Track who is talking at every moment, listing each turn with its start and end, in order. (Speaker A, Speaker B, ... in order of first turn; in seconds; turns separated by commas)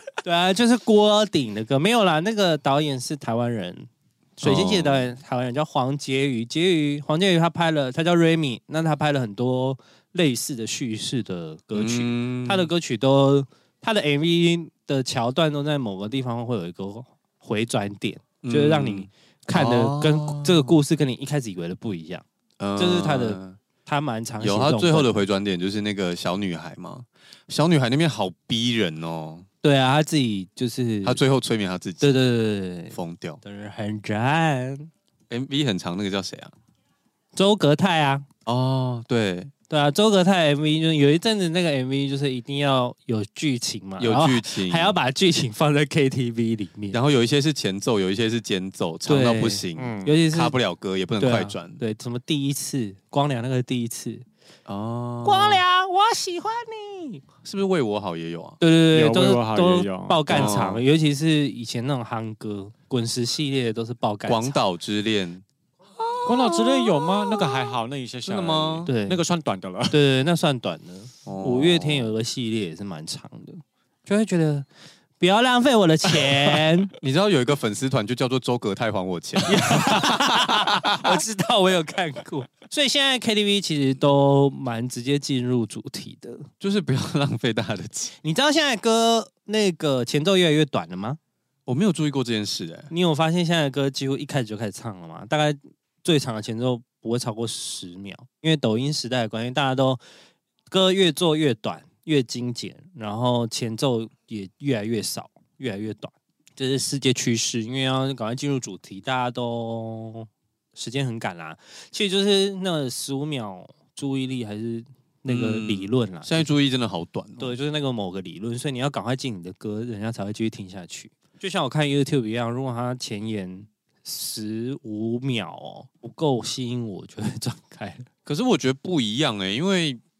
Speaker A: 0.2-22.2, Speaker B: 4.4-5.1, Speaker B: 11.7-12.7, Speaker B: 18.4-20.7, Speaker B: 22.6-23.6, Speaker A: 22.8-25.1, Speaker B: 24.4-29.4, Speaker A: 29.6-31.2, Speaker B: 31.0-32.1, Speaker A: 32.0-34.9, Speaker B: 32.9-33.4, Speaker B: 35.3-36.5, Speaker A: 37.3-38.2, Speaker B: 38.5-39.5, Speaker A: 39.7-47.0, Speaker B: 44.0-45.0, Speaker B: 46.9-51.8, Speaker A: 49.0-50.5, Speaker C: 49.8-50.1, Speaker A: 51.2-54.2, Speaker B: 54.6-55.6, Speaker A: 55.2-57.2, Speaker B: 57.4-58.6, Speaker A: 58.6-64.6, Speaker C: 58.9-60.6, Speaker B: 60.3-60.8, Speaker B: 64.3-65.4, Speaker B: 66.0-68.9, Speaker C: 66.2-70.0, Speaker A: 68.8-69.2, Speaker A: 69.9-74.7, Speaker B: 71.2-72.1, Speaker A: 75.2-76.9, Speaker B: 77.0-81.2, Speaker A: 79.5-86.5, Speaker B: 86.6-88.2, Speaker A: 88.2-91.2, Speaker B: 91.7-92.9, Speaker A: 92.9-100.0, Speaker A: 100.7-116.5, Speaker B: 115.3-117.5, Speaker A: 117.4-128.1, Speaker B: 128.2-130.0